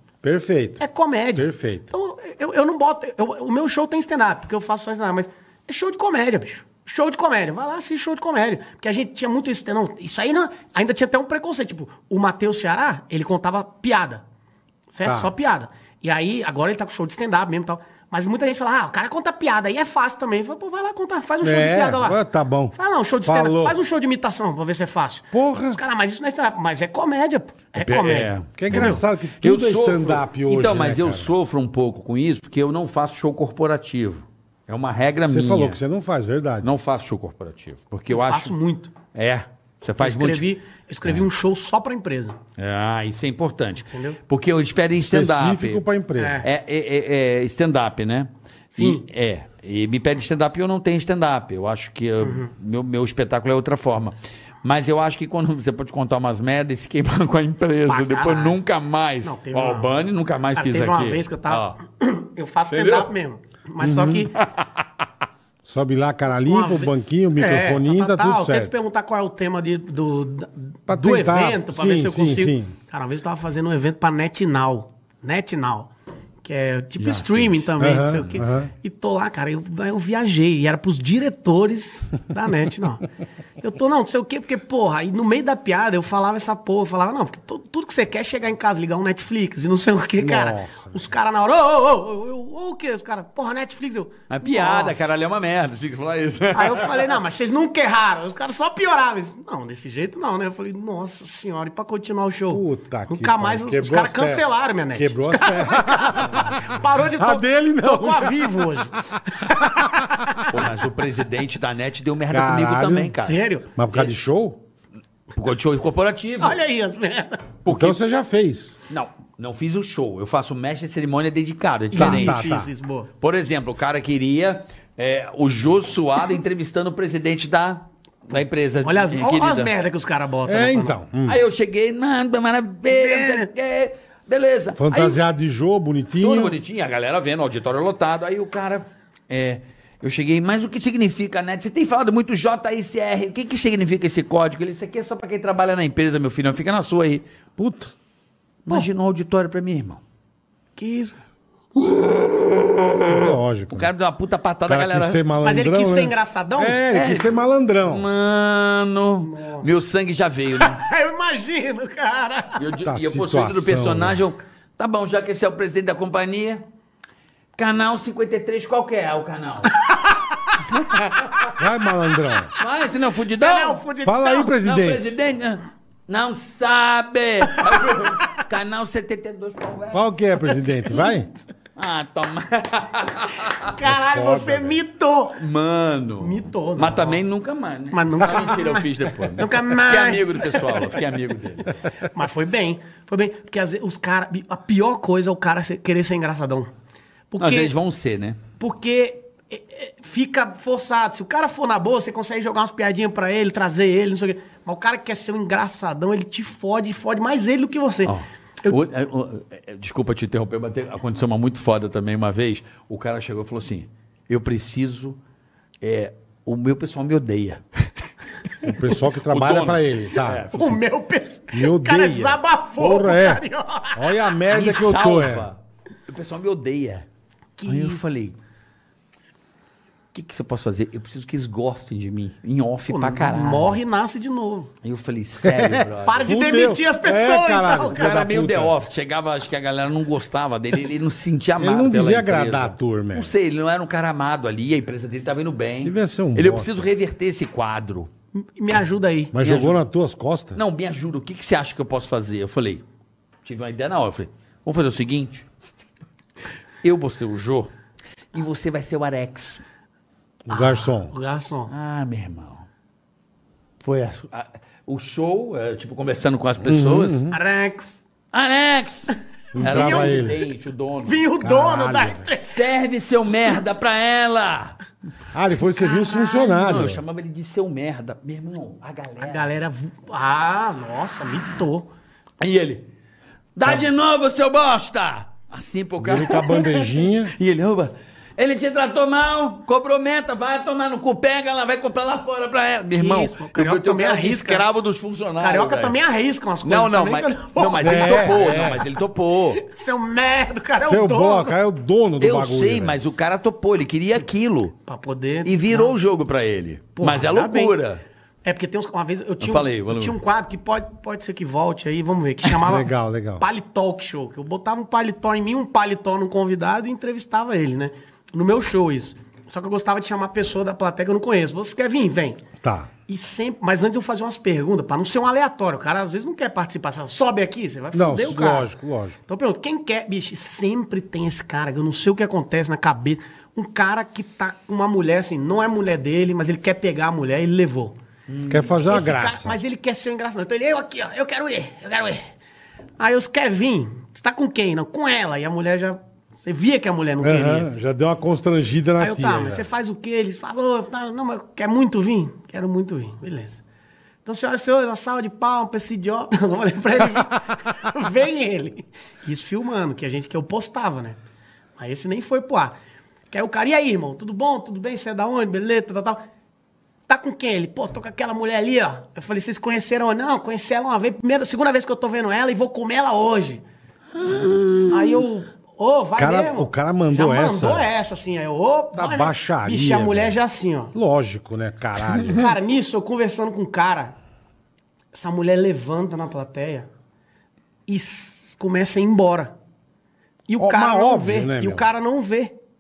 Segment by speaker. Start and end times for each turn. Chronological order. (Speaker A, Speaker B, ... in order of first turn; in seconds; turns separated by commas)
Speaker A: 0.2-0.8, Speaker B: 0.8-14.2, Speaker A: 1.4-1.9, Speaker B: 14.9-22.2, Speaker A: 15.1-15.3, Speaker A: 21.4-23.8, Speaker B: 22.7-29.0, Speaker A: 25.3-25.8, Speaker C: 27.8-35.8, Speaker A: 28.6-31.3, Speaker A: 35.3-36.7, Speaker C: 36.6-38.5, Speaker B: 38.1-38.9, Speaker C: 39.1-40.5, Speaker B: 40.0-42.4, Speaker C: 42.6-45.8, Speaker B: 43.8-44.2, Speaker A: 45.0-46.5, Speaker B: 46.2-46.5, Speaker C: 46.4-61.8, Speaker B: 48.7-49.0, Speaker B: 52.2-52.5, Speaker B: 57.9-58.6, Speaker B: 59.2-59.9, Speaker B: 60.5-64.3, Speaker C: 62.7-63.1, Speaker A: 63.8-64.3, Speaker C: 64.4-64.7, Speaker A: 65.7-68.7, Speaker B: 66.5-75.9, Speaker A: 70.9-72.8, Speaker B: 76.4-83.1, Speaker C: 77.0-77.6, Speaker A: 77.8-78.7, Speaker B: 83.6-95.2, Speaker A: 90.2-91.1, Speaker C: 94.3-97.2, Speaker B: 96.5-110.7, Speaker A: 102.5-106.7, Speaker A: 107.2-109.8, Speaker C: 110.5-113.4, Speaker A: 112.3-113.2, Speaker B: 113.2-113.7, Speaker A: 113.8-114.6, Speaker C: 115.3-116.6, Speaker B: 116.4-117.4, Speaker C: 117.6-118.0, Speaker A: 117.7-118.8, Speaker C: 118.9-122.5, Speaker B: 121.9-123.1, Speaker A: 122.0-122.7, Speaker C: 123.2-129.7, Speaker B: 128.8-131.0, Speaker A: 130.4-131.4, Speaker C: 131.3-135.2, Speaker B: 132.9-133.5, Speaker A: 134.8-136.6, Speaker C: 136.2-147.2, Speaker A: 147.6-147.9, Speaker C: 148.7-150.0, Speaker B: 150.8-151.2, Speaker C: 151.8-155.2, Speaker A: 153.1-153.9, Speaker A: 154.7-158.1, Speaker B: 155.4-156.8, Speaker C: 156.9-160.8, Speaker B: 159.2-159.7, Speaker B: 160.5-162.6, Speaker C: 162.6-166.6, Speaker A: 162.8-164.2, Speaker C: 167.6-169.9, Speaker C: 170.6-171.5, Speaker A: 171.6-172.5, Speaker C: 172.6-173.8, Speaker B: 173.3-174.6, Speaker A: 174.0-175.2, Speaker C: 174.5-181.2, Speaker A: 179.9-181.3, Speaker C: 181.8-183.7, Speaker B: 183.6-185.4, Speaker A: 183.8-184.8, Speaker C: 185.4-191.8, Speaker B: 186.2-187.2, Speaker B: 187.9-191.0, Speaker B: 192.1-196.7, Speaker B: 197.3-197.7, Speaker C: 197.4-198.4, Speaker B: 198.6-208.8, Speaker C: 208.1-215.2, Speaker C: 215.8-217.9, Speaker A: 218.6-220.5, Speaker C: 219.3-220.8, Speaker B: 220.5-224.1, Speaker A: 221.5-223.4, Speaker A: 223.9-225.5, Speaker C: 224.5-227.1, Speaker B: 227.6-228.1, Speaker C: 227.7-228.4, Speaker C: 230.1-233.8, Speaker B: 232.9-234.7, Speaker C: 234.8-236.3, Speaker A: 235.4-238.7, Speaker B: 236.1-238.2, Speaker C: 237.9-248.1, Speaker A: 241.6-243.3, Speaker A: 245.8-246.8, Speaker B: 248.4-249.3, Speaker A: 249.3-250.6, Speaker C: 249.4-249.8, Speaker C: 250.6-252.8, Speaker C: 253.4-255.5, Speaker C: 256.8-257.7, Speaker C: 258.3-259.6, Speaker A: 260.5-261.1, Speaker B: 260.5-261.7, Speaker C: 261.7-262.7, Speaker C: 263.8-267.2, Speaker A: 266.6-267.4, Speaker B: 267.3-268.0, Speaker C: 268.3-271.2, Speaker A: 269.6-270.4, Speaker B: 269.6-270.4, Speaker B: 271.0-272.6, Speaker A: 271.4-272.3, Speaker C: 272.3-274.8, Speaker A: 275.3-277.0, Speaker B: 275.8-276.9, Speaker C: 276.6-279.5, Speaker B: 279.2-281.9, Speaker C: 282.4-282.9, Speaker C: 283.6-296.0, Speaker A: 286.0-287.4, Speaker B: 292.9-294.7, Speaker B: 295.4-298.8, Speaker C: 296.6-299.6, Speaker A: 297.8-298.9, Speaker B: 299.5-301.6, Speaker A: 300.8-303.0, Speaker C: 302.2-304.8, Speaker B: 304.9-305.9, Speaker C: 305.5-308.0, Speaker B: 307.0-307.8, Speaker B: 308.4-322.4, Speaker C: 309.4-310.2, Speaker A: 312.6-313.5, Speaker A: 322.6-322.9, Speaker B: 323.1-328.7, Speaker A: 327.9-329.2, Speaker B: 329.3-338.0, Speaker C: 338.3-338.7, Speaker A: 338.5-339.6, Speaker B: 338.5-342.3, Speaker B: 343.0-347.7, Speaker A: 347.2-349.7, Speaker B: 349.0-353.6, Speaker B: 354.2-361.2, Speaker B: 361.8-362.8, Speaker B: 363.3-366.2, Speaker B: 367.1-373.6, Speaker C: 374.2-375.2, Speaker B: 374.9-380.9, Speaker A: 376.2-377.9, Speaker A: 378.9-380.4, Speaker A: 380.9-382.6, Speaker B: 382.3-384.1, Speaker B: 385.1-386.9, Speaker B: 387.9-389.6, Speaker B: 390.5-392.6, Speaker A: 390.6-391.9